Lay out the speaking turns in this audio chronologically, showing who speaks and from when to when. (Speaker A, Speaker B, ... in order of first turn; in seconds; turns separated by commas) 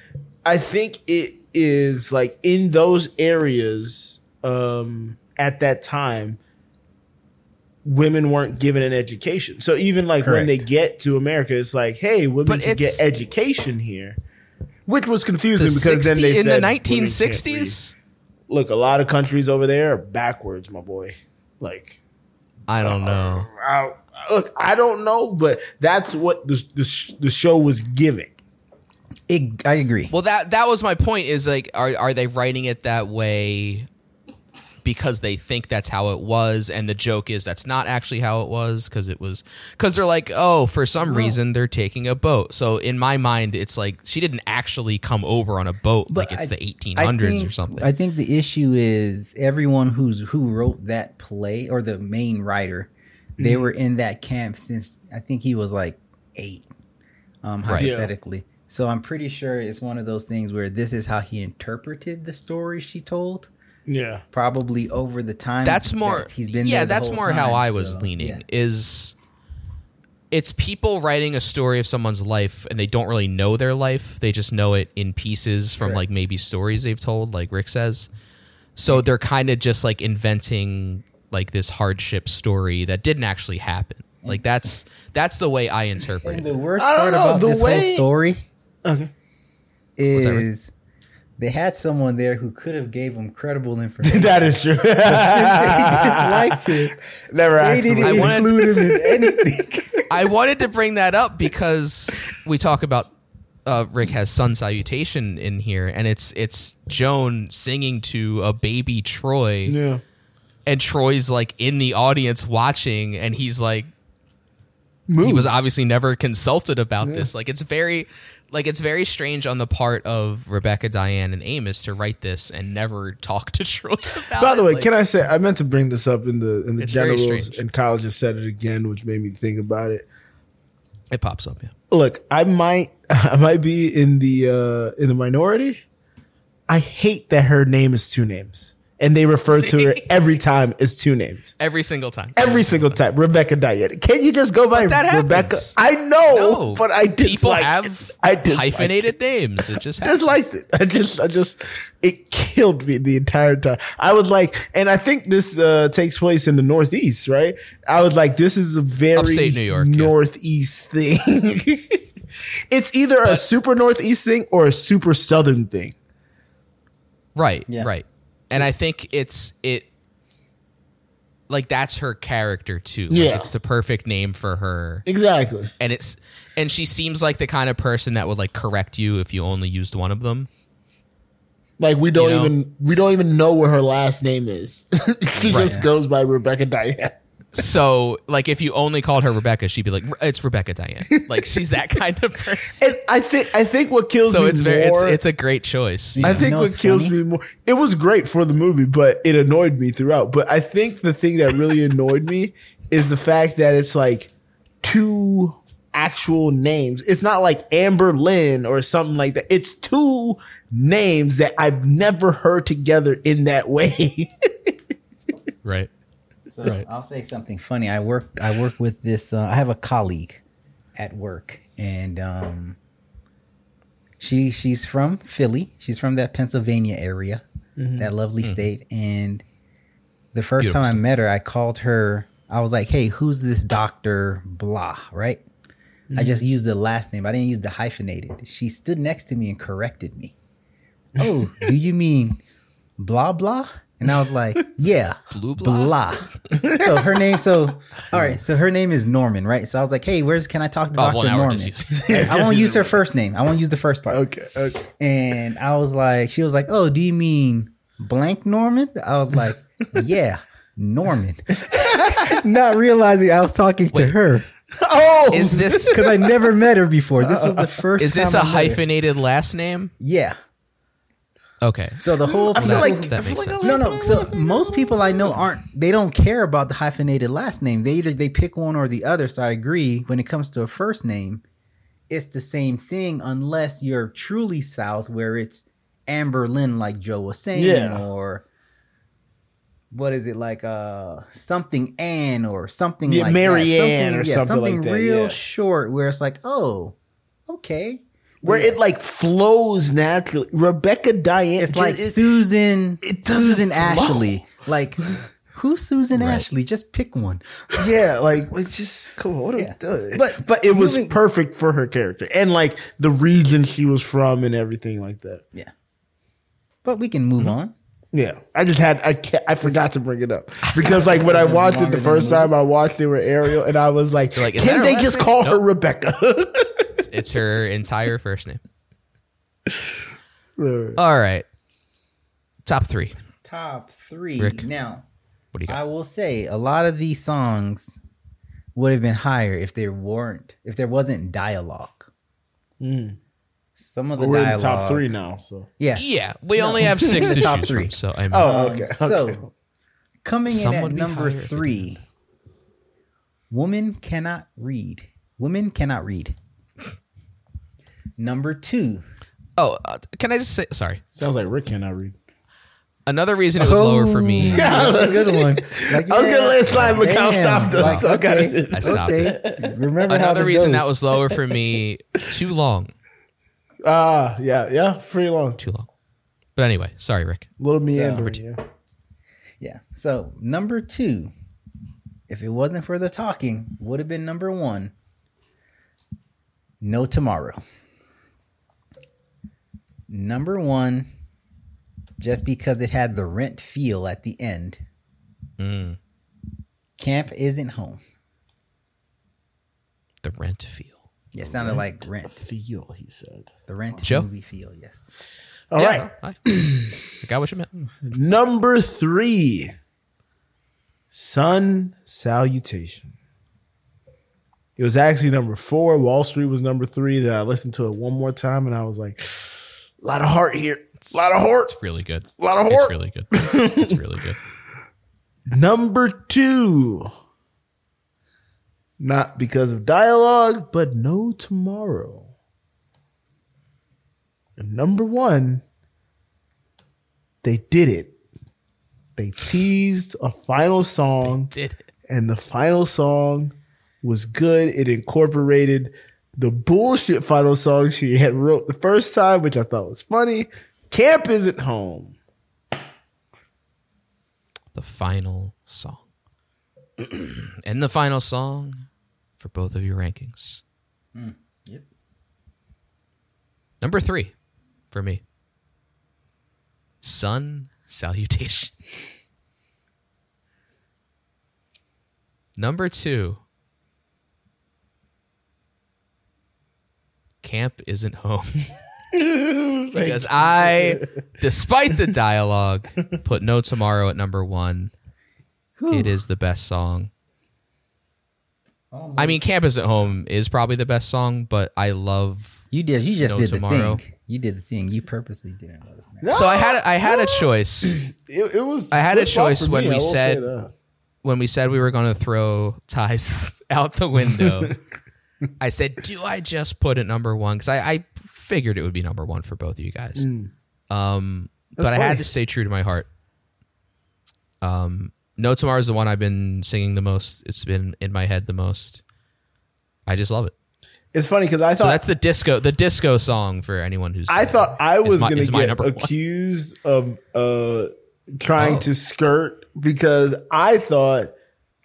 Speaker A: 0.4-6.4, Speaker A: 7.8-14.2, Speaker B: 10.2-10.7, Speaker C: 12.4-13.1, Speaker A: 14.9-17.8, Speaker C: 15.6-17.9, Speaker A: 18.5-22.0, Speaker C: 22.7-23.5, Speaker A: 22.8-28.3, Speaker B: 29.3-30.1, Speaker C: 30.1-33.9, Speaker C: 34.8-47.9, Speaker B: 41.0-41.4, Speaker B: 46.1-56.6, Speaker A: 53.4-53.7, Speaker B: 57.4-63.5, Speaker C: 57.6-57.9, Speaker A: 57.8-58.1, Speaker A: 63.9-64.2, Speaker B: 64.3-68.4, Speaker C: 65.6-69.1, Speaker C: 70.3-78.1, Speaker B: 75.8-76.0, Speaker C: 78.8-86.5, Speaker B: 86.2-88.4, Speaker A: 86.8-88.1, Speaker A: 88.8-89.1, Speaker B: 90.0-90.7, Speaker C: 90.1-90.5, Speaker B: 91.4-97.0, Speaker A: 94.0-99.5, Speaker B: 97.5-100.0, Speaker C: 98.0-98.6, Speaker C: 100.1-103.1, Speaker C: 103.7-109.8, Speaker A: 109.7-110.0, Speaker C: 110.7-113.9, Speaker A: 115.1-115.6, Speaker C: 115.2-124.9, Speaker A: 117.0-117.3, Speaker A: 124.3-130.0, Speaker C: 126.8-127.6, Speaker C: 131.1-131.7, Speaker A: 131.9-135.8, Speaker A: 136.7-141.6, Speaker C: 139.5-140.1, Speaker C: 141.6-143.0, Speaker A: 142.3-149.1, Speaker C: 144.7-145.8, Speaker C: 146.3-150.4, Speaker A: 150.0-162.0, Speaker C: 159.2-160.1, Speaker A: 162.7-165.9, Speaker C: 167.3-169.9, Speaker C: 171.5-175.0, Speaker A: 173.1-173.5, Speaker A: 175.1-175.7, Speaker C: 175.8-180.5, Speaker A: 181.8-187.1, Speaker C: 182.1-182.6, Speaker C: 185.4-185.8, Speaker B: 185.4-185.9, Speaker C: 187.5-192.9, Speaker A: 192.8-195.2, Speaker C: 194.2-196.5, Speaker B: 196.1-197.2, Speaker A: 196.2-204.3, Speaker A: 204.8-214.7, Speaker C: 215.6-215.9, Speaker B: 216.5-220.4, Speaker B: 220.9-222.8, Speaker B: 224.2-227.4, Speaker A: 227.8-228.1, Speaker B: 228.0-229.4, Speaker B: 230.3-235.4, Speaker C: 230.6-231.0, Speaker A: 236.1-236.4, Speaker B: 236.1-240.3, Speaker B: 241.2-242.4, Speaker B: 243.0-254.2, Speaker C: 245.3-246.0, Speaker A: 246.5-247.2, Speaker C: 250.9-252.1, Speaker A: 252.0-253.0, Speaker A: 254.1-254.8, Speaker B: 254.9-264.5, Speaker A: 261.7-262.3, Speaker A: 264.8-266.4, Speaker C: 265.3-266.0, Speaker B: 265.8-268.8, Speaker A: 267.2-267.8, Speaker C: 268.0-269.9, Speaker B: 270.0-270.4, Speaker C: 271.6-273.8, Speaker B: 272.0-281.4, Speaker A: 272.3-275.4, Speaker B: 282.1-288.4, Speaker A: 287.5-288.0, Speaker B: 289.9-296.9, Speaker A: 293.1-295.4, Speaker B: 297.5-298.8, Speaker A: 298.4-302.3, Speaker B: 301.6-307.9, Speaker A: 303.0-304.3, Speaker C: 306.1-306.4, Speaker A: 307.8-315.4, Speaker B: 309.6-311.2, Speaker B: 316.8-317.7, Speaker A: 318.1-327.0, Speaker B: 320.8-322.5, Speaker C: 324.4-325.6, Speaker C: 327.1-328.6, Speaker A: 330.6-331.0, Speaker C: 330.9-331.4, Speaker C: 332.6-333.1, Speaker B: 333.4-335.0, Speaker C: 334.4-334.6, Speaker C: 335.5-335.8, Speaker B: 335.7-338.0, Speaker B: 338.7-342.1, Speaker A: 342.8-343.2, Speaker B: 343.8-345.1, Speaker A: 344.2-345.7, Speaker B: 345.8-349.5, Speaker C: 345.9-348.5, Speaker A: 346.8-347.5, Speaker A: 348.3-349.5, Speaker B: 350.2-352.0, Speaker C: 350.5-351.9, Speaker B: 353.5-356.4, Speaker B: 358.2-359.0, Speaker C: 359.6-361.0, Speaker A: 361.1-362.1, Speaker C: 363.1-364.8, Speaker B: 363.6-371.0, Speaker A: 364.5-369.8, Speaker C: 367.7-368.0, Speaker C: 368.7-369.4, Speaker C: 370.1-372.9, Speaker A: 373.8-375.6, Speaker C: 375.6-375.9, Speaker C: 376.6-377.5, Speaker A: 377.6-378.6, Speaker B: 377.9-378.4, Speaker B: 379.6-381.3, Speaker B: 382.3-384.9, Speaker B: 386.8-387.6, Speaker B: 390.1-391.1, Speaker B: 392.2-394.8, Speaker C: 395.6-396.0, Speaker B: 397.0-398.0, Speaker C: 400.2-401.0, Speaker B: 401.3-402.4, Speaker A: 401.4-403.5, Speaker B: 403.7-405.1, Speaker A: 405.7-407.0, Speaker C: 405.8-406.4, Speaker C: 407.2-407.7, Speaker A: 408.0-409.7, Speaker A: 411.1-413.1, Speaker A: 414.8-421.8, Speaker C: 421.0-424.4, Speaker A: 422.4-424.0, Speaker A: 425.5-427.1, Speaker A: 429.0-432.3, Speaker A: 434.6-435.6, Speaker A: 437.4-438.1, Speaker A: 439.2-441.5, Speaker C: 441.2-441.8, Speaker A: 442.1-452.1, Speaker C: 454.7-456.0, Speaker C: 457.1-458.9, Speaker C: 459.4-460.6, Speaker B: 461.1-461.9, Speaker C: 463.8-464.3, Speaker C: 464.9-465.2, Speaker C: 467.0-468.7, Speaker C: 472.6-473.4, Speaker C: 477.4-478.7, Speaker A: 479.1-481.0, Speaker C: 479.9-484.9, Speaker B: 485.8-486.2, Speaker C: 485.9-487.1, Speaker B: 488.9-489.5, Speaker C: 489.2-492.6, Speaker B: 492.7-496.4, Speaker C: 493.2-494.0, Speaker A: 496.2-500.7, Speaker C: 496.3-498.0, Speaker C: 498.9-500.4, Speaker C: 501.2-504.7, Speaker A: 504.4-504.7, Speaker C: 505.6-510.3, Speaker A: 510.1-510.5, Speaker C: 510.9-513.1, Speaker A: 511.8-512.3, Speaker C: 514.6-519.0, Speaker C: 520.1-520.5, Speaker A: 521.1-522.0, Speaker C: 521.8-526.1, Speaker A: 524.3-531.3, Speaker C: 528.6-528.9